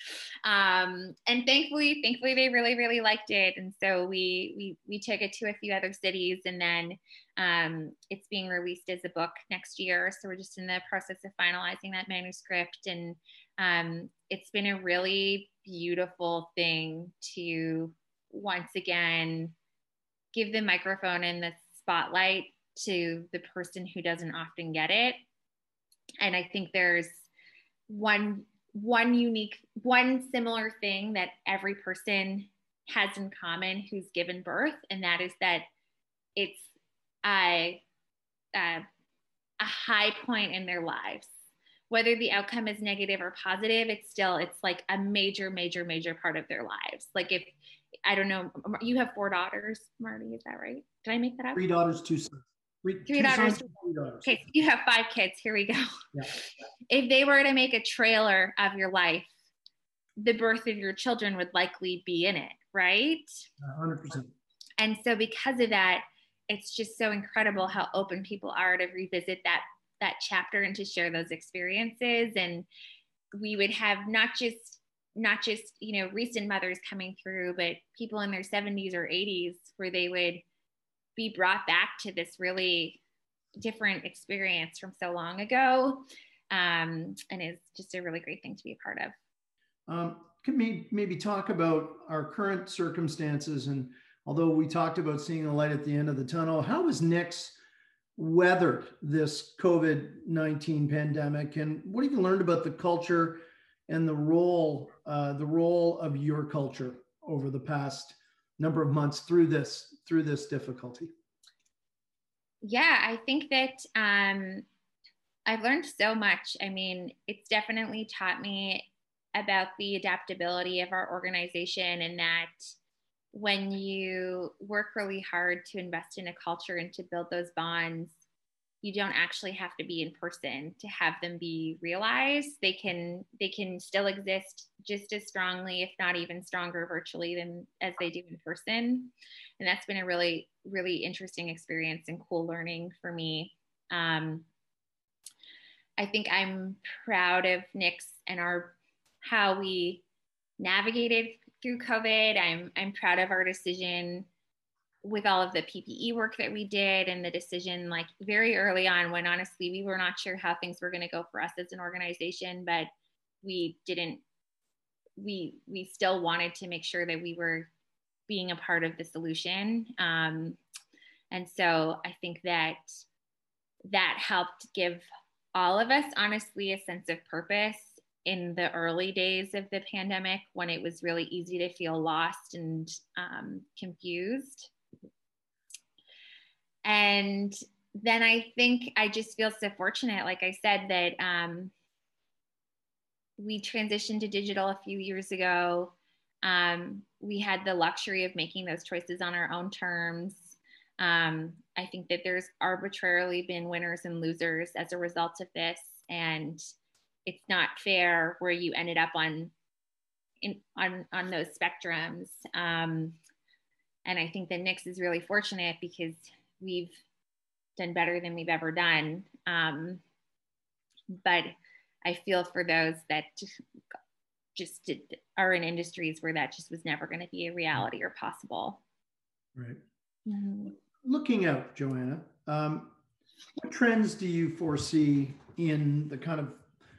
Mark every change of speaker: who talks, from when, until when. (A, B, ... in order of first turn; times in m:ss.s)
0:00.4-0:19.5 A
0:20.3-0:25.2 A
0:26.2-0:27.3 A
0:27.9-0:35.7 A
0:36.4-0:36.7 A
0:37.2-0:37.8 A
0:38.5-0:38.8 A
0:39.6-0:41.3 A
0:41.9-0:47.5 A
0:48.0-0:51.6 A
0:51.6-0:54.4 B
0:53.1-0:53.7 A
0:54.2-0:59.3 A
1:00.2-1:03.5 A
1:03.6-1:04.3 B
1:04.8-1:12.7 A
1:13.3-1:20.4 A
1:21.2-1:23.0 A
1:23.6-1:29.1 A
1:29.9-1:37.6 B
1:38.2-1:51.1 B
1:52.6-1:54.6 A
1:55.5-2:02.7 A
2:03.3-2:08.2 A
2:08.8-2:24.4 A
2:26.0-2:30.0 A
2:30.6-2:34.3 A
2:35.0-2:42.9 A
2:43.4-2:44.2 A
2:45.2-2:47.7 A
2:48.3-2:50.6 A
2:51.3-2:52.9 A
2:53.9-3:04.7 A
3:06.8-3:11.7 A
3:13.4-3:26.6 A
3:27.2-3:29.5 A
3:30.4-3:33.1 A
3:34.0-3:37.0 A
3:37.8-3:40.0 A
3:41.1-3:41.5 A
3:42.0-3:43.6 A
3:44.6-3:48.8 A
3:49.5-3:49.8 B
3:50.2-3:50.7 A
3:50.8-3:52.9 B
3:53.6-3:56.6 B